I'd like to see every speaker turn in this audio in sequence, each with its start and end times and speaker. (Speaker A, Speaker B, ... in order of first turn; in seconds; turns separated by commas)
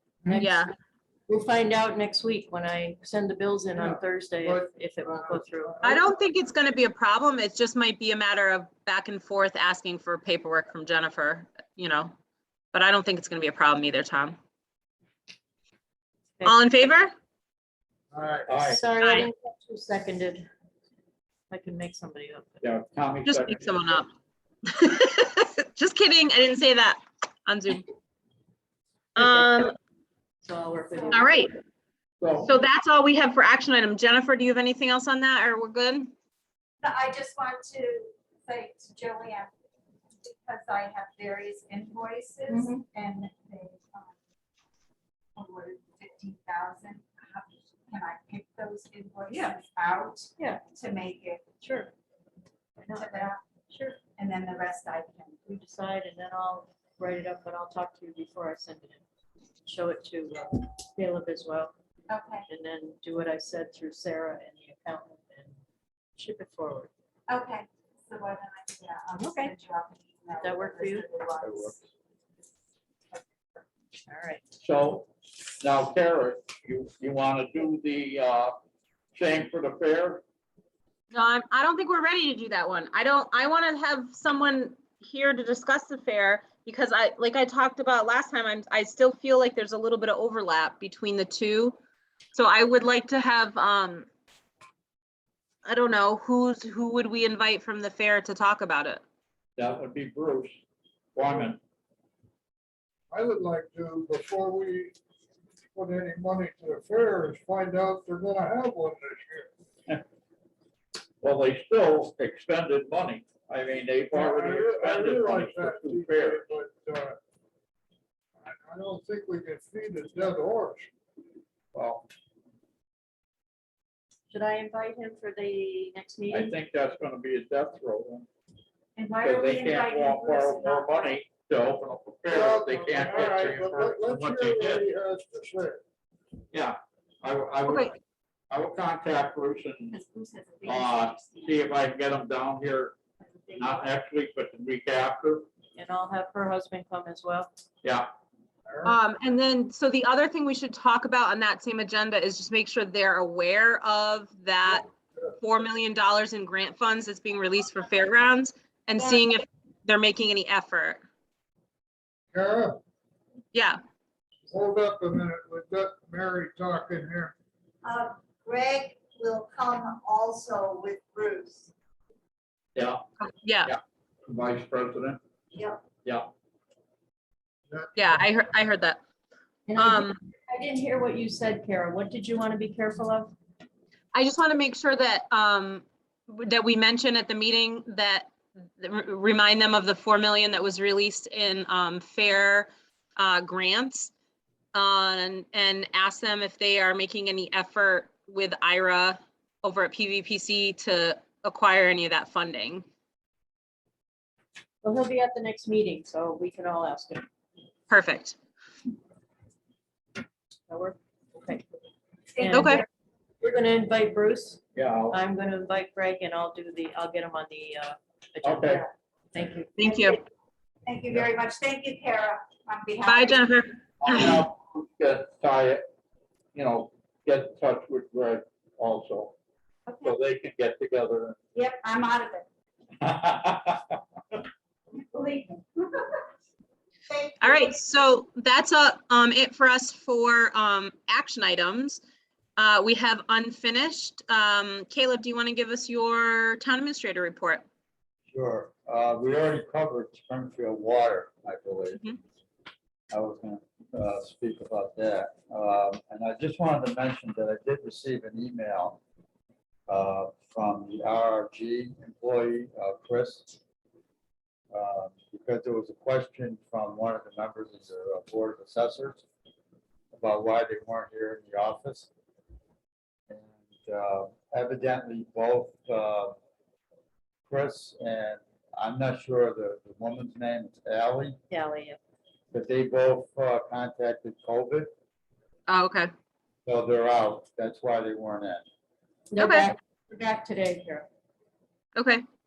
Speaker A: 0.2-0.5, Speaker B: 0.2-0.7, Speaker C: 0.4-0.7, Speaker B: 1.3-5.8, Speaker A: 3.8-6.1, Speaker C: 5.8-12.1, Speaker C: 12.7-14.4, Speaker C: 16.4-17.1, Speaker A: 18.1-18.5, Speaker D: 18.5-18.8, Speaker B: 18.6-20.5, Speaker C: 19.0-19.3, Speaker B: 21.5-22.6, Speaker D: 22.6-23.8, Speaker C: 23.2-24.1, Speaker C: 24.7-27.9, Speaker C: 29.1-29.7, Speaker B: 29.2-29.7, Speaker B: 30.4-31.6, Speaker E: 30.9-31.4, Speaker C: 31.1-31.5, Speaker D: 32.2-32.5, Speaker C: 32.4-36.1, Speaker E: 36.8-39.5, Speaker E: 40.2-44.1, Speaker B: 42.5-42.8, Speaker E: 45.4-51.4, Speaker B: 51.6-51.9, Speaker B: 52.8-54.0, Speaker E: 52.9-53.4, Speaker E: 54.1-55.3, Speaker B: 55.4-59.0, Speaker B: 59.6-61.7, Speaker E: 62.1-62.4, Speaker B: 62.5-65.6, Speaker B: 66.2-66.9, Speaker E: 67.3-71.8, Speaker B: 69.2-69.5, Speaker B: 70.4-71.1, Speaker D: 71.4-71.7, Speaker B: 74.0-74.5, Speaker D: 74.6-75.1, Speaker D: 75.6-78.5, Speaker D: 79.1-80.2, Speaker C: 81.1-91.8, Speaker C: 92.3-94.1, Speaker C: 95.6-99.0, Speaker D: 99.6-100.6, Speaker D: 101.1-101.6, Speaker A: 103.1-105.0, Speaker A: 105.7-109.5, Speaker D: 111.2-116.5, Speaker A: 114.1-117.2, Speaker A: 118.4-120.9, Speaker D: 121.7-122.1, Speaker B: 124.3-126.6, Speaker D: 126.3-128.3, Speaker E: 128.9-131.2, Speaker D: 129.2-134.9, Speaker A: 132.3-135.8, Speaker D: 136.5-138.0, Speaker C: 137.6-137.9, Speaker D: 138.5-139.9, Speaker E: 139.9-141.7, Speaker D: 140.6-143.0, Speaker E: 143.2-143.9, Speaker D: 143.5-145.4, Speaker B: 145.7-147.5, Speaker A: 148.6-149.0, Speaker C: 148.8-161.0, Speaker E: 159.0-159.2, Speaker A: 162.3-162.8, Speaker C: 163.5-163.8, Speaker A: 164.5-167.3, Speaker E: 167.8-171.7, Speaker D: 172.7-173.0, Speaker C: 173.2-173.7, Speaker D: 173.6-175.2, Speaker E: 175.5-175.8, Speaker C: 177.9-179.0, Speaker B: 179.7-183.3, Speaker C: 179.8-180.2, Speaker C: 184.1-194.1, Speaker C: 194.7-202.8, Speaker B: 204.8-207.2, Speaker C: 207.9-208.4, Speaker B: 210.7-211.7, Speaker E: 212.3-212.8, Speaker B: 212.4-212.8, Speaker C: 212.5-212.8, Speaker B: 213.4-219.7, Speaker D: 214.7-215.2, Speaker D: 218.4-218.8, Speaker C: 219.8-220.2, Speaker E: 219.8-220.2, Speaker E: 220.8-223.5, Speaker C: 223.0-224.4, Speaker D: 224.0-225.9, Speaker D: 226.5-229.3, Speaker E: 229.8-230.1, Speaker D: 230.0-231.4, Speaker E: 231.5-232.4, Speaker D: 233.0-234.4, Speaker E: 234.9-236.0, Speaker E: 237.1-237.8, Speaker C: 237.4-242.0, Speaker C: 242.6-247.6, Speaker F: 248.3-252.2, Speaker F: 253.1-259.0, Speaker F: 259.9-263.6, Speaker F: 264.7-269.2, Speaker F: 270.1-272.1, Speaker F: 273.3-276.4, Speaker F: 277.5-281.4, Speaker B: 281.5-282.0, Speaker F: 282.5-284.9, Speaker C: 285.7-286.1, Speaker F: 286.6-288.6, Speaker B: 289.3-291.1, Speaker C: 289.4-289.7, Speaker C: 291.9-292.2